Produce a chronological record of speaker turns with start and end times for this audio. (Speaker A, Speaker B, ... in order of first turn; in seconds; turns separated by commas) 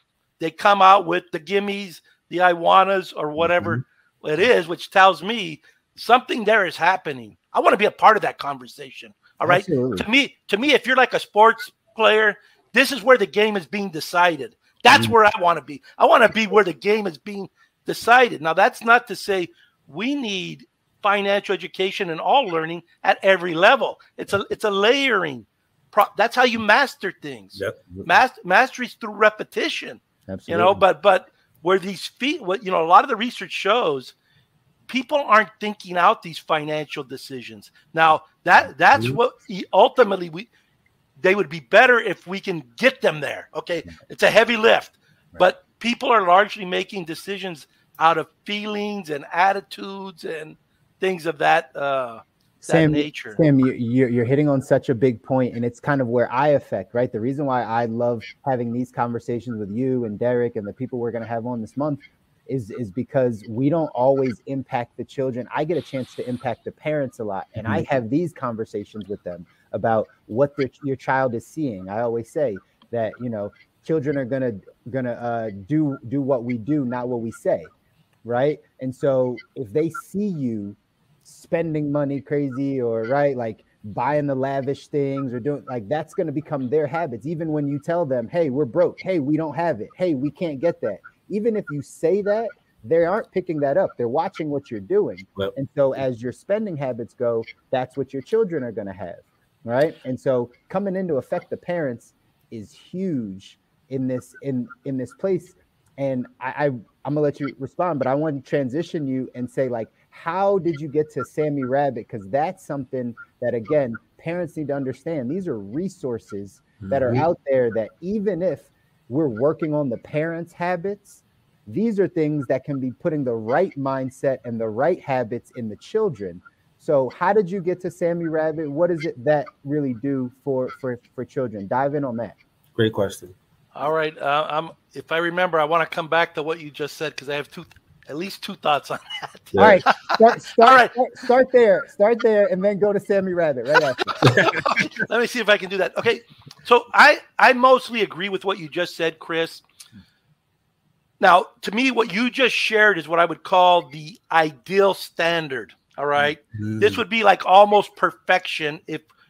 Speaker A: 0.4-34.1, Speaker B: 9.4-10.1, Speaker C: 27.6-28.1, Speaker B: 30.3-30.8, Speaker A: 34.9-40.5, Speaker A: 41.2-53.4, Speaker B: 52.6-77.7, Speaker B: 78.2-132.4, Speaker C: 116.8-117.2, Speaker C: 132.8-133.3, Speaker A: 133.7-140.9, Speaker C: 139.5-139.8, Speaker B: 139.6-144.1, Speaker A: 144.1-149.6, Speaker C: 144.2-144.8, Speaker A: 151.2-159.1, Speaker C: 156.5-157.0